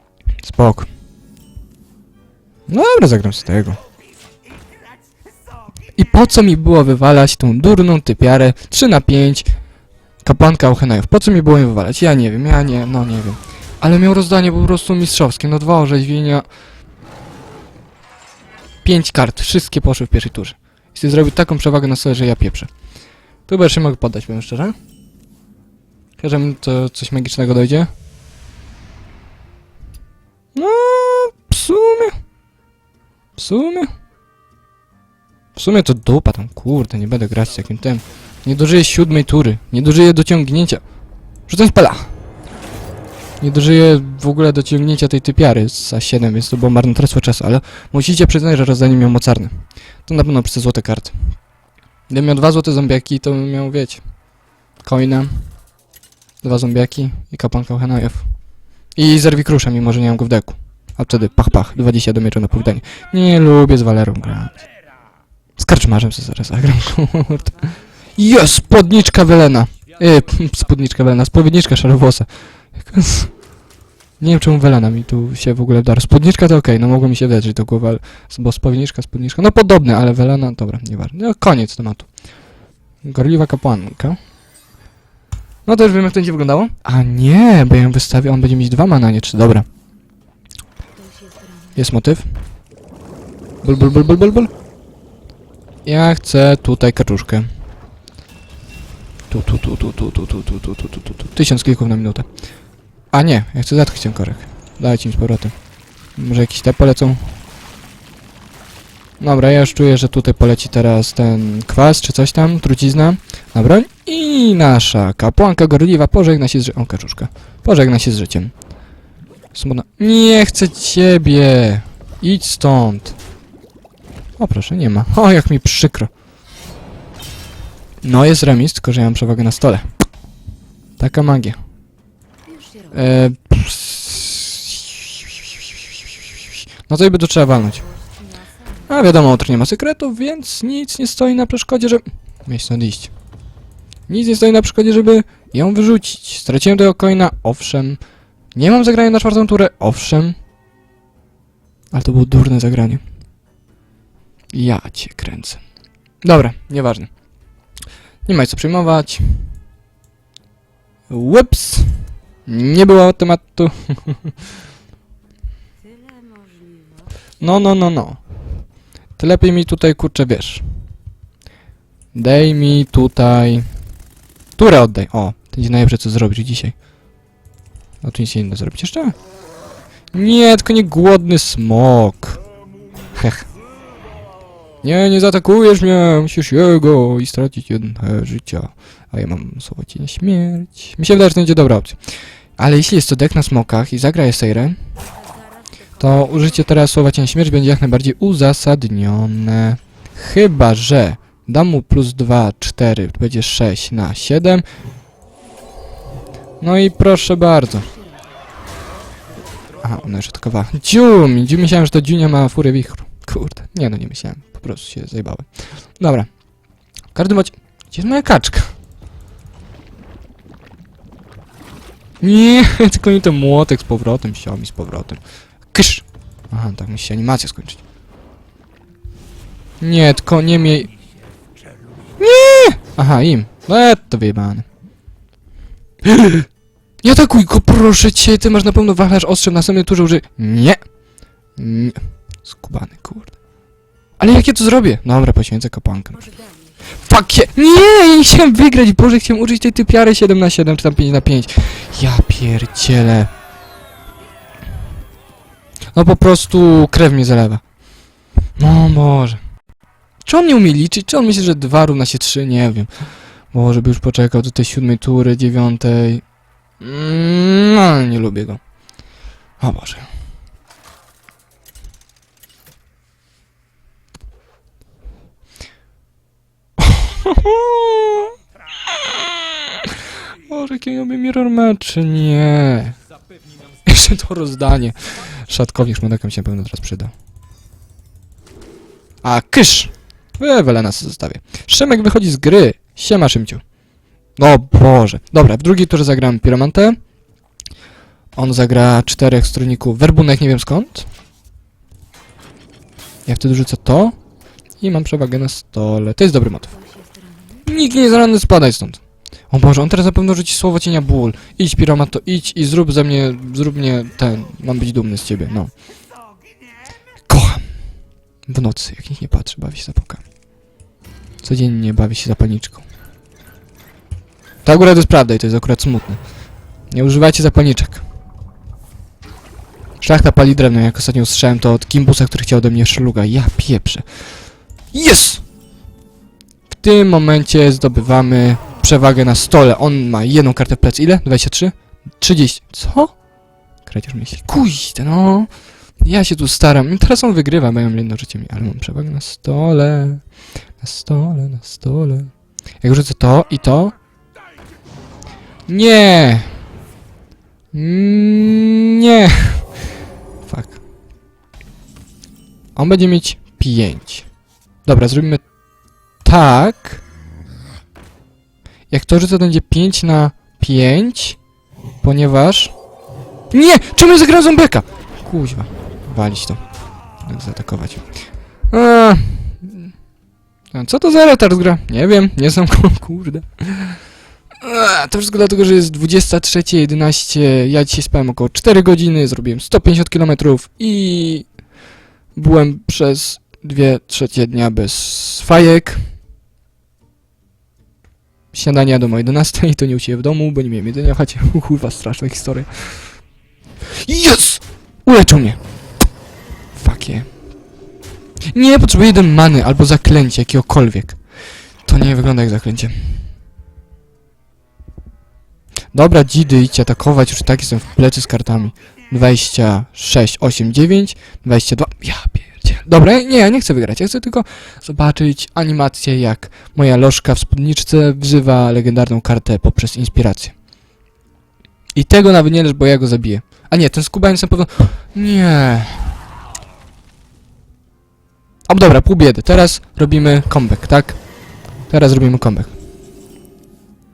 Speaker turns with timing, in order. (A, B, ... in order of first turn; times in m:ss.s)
0:00.4-0:00.9 A
0:02.7-0:03.8 A
0:06.0-0:09.5 A
0:10.2-0:16.5 A
0:18.8-0:22.7 A
0:23.5-0:24.8 A
0:26.2-0:27.9 A
0:30.5-0:32.2 A
0:33.4-0:33.9 A
0:35.6-0:40.8 A
0:41.5-0:42.1 A
0:43.4-0:51.3 A
0:52.1-0:54.0 A
0:54.8-0:55.5 A
0:56.4-0:58.3 A
0:59.0-1:04.6 A
1:05.6-1:13.3 A
1:08.2-1:08.4 B
1:14.2-1:22.1 A
1:23.0-1:24.2 A
1:25.6-1:29.7 A
1:30.9-1:31.9 B
1:31.8-1:32.4 A
1:33.6-1:34.5 A
1:35.8-1:37.5 A
1:39.3-1:42.3 A
1:43.1-1:45.5 A
1:46.2-1:47.4 A
1:49.2-1:58.5 A
1:59.5-2:03.2 A
2:04.4-2:06.1 A
2:08.0-2:09.9 A
2:11.0-2:11.6 A
2:12.4-2:13.2 B
2:12.9-2:16.2 A
2:16.9-2:17.8 A
2:17.5-2:19.3 B
2:18.9-2:23.1 A
2:24.1-2:28.0 A
2:28.5-2:30.4 A
2:31.9-2:33.0 A
2:34.5-2:35.6 A
2:36.2-2:37.1 A
2:38.2-2:39.5 A
2:41.1-2:44.3 A
2:45.8-2:47.2 B
2:47.4-2:48.2 A
2:49.2-2:50.6 A
2:52.1-2:53.7 A
2:54.6-2:56.8 A
2:58.0-2:59.1 A
3:00.1-3:02.4 A
3:03.1-3:03.5 A
3:04.8-3:12.0 A
3:12.6-3:14.8 A
3:15.0-3:16.9 B
3:16.0-3:24.6 A
3:26.6-3:27.9 A
3:27.7-3:28.4 B
3:29.8-3:35.5 A
3:36.0-3:36.3 A
3:37.1-3:38.8 A
3:42.2-3:45.2 A
3:45.7-3:47.8 A
3:49.8-3:50.9 A
3:52.2-3:54.6 A
3:56.0-3:56.5 A
3:57.0-4:00.8 A
4:01.6-4:03.3 A
4:04.2-4:06.2 A
4:06.1-4:07.0 B
4:07.0-4:13.3 A
4:15.9-4:17.6 A
4:18.6-4:19.4 A
4:20.2-4:22.9 A
4:23.5-4:26.2 A
4:26.8-4:28.6 A
4:29.6-4:30.1 A
4:36.8-4:38.3 A
4:38.9-4:43.0 A
4:43.8-4:47.1 A
4:49.2-4:53.6 A
4:54.4-4:57.0 A
4:58.4-5:01.1 A
5:03.2-5:04.2 A
5:04.8-5:06.7 A
5:06.7-5:07.7 B
5:07.6-5:15.7 A
5:17.3-5:17.6 A
5:18.5-5:20.2 A
5:21.4-5:22.8 A
5:24.6-5:26.2 A
5:26.9-5:28.0 A
5:30.0-5:34.2 A
5:34.9-5:35.4 A
5:36.7-5:43.1 A
5:43.9-5:45.5 A
5:46.0-5:50.2 A
5:50.8-5:52.3 A
5:52.8-5:54.0 A
5:55.7-5:56.5 A
5:57.7-5:59.6 A
6:00.5-6:00.8 A
6:02.8-6:04.2 A
6:04.8-6:05.4 A
6:06.2-6:07.0 A
6:08.9-6:11.4 A
6:12.0-6:12.8 A
6:13.5-6:16.6 A
6:17.2-6:18.0 A
6:18.7-6:19.9 A
6:20.7-6:24.0 A
6:24.6-6:31.5 A
6:32.4-6:36.0 A
6:38.5-6:43.1 A
6:43.9-6:45.6 A
6:46.8-6:47.3 A
6:48.5-6:51.2 A
6:51.9-6:53.2 A
6:55.9-7:10.5 A
7:12.0-7:16.1 A
7:18.7-7:21.2 A
7:21.9-7:22.7 A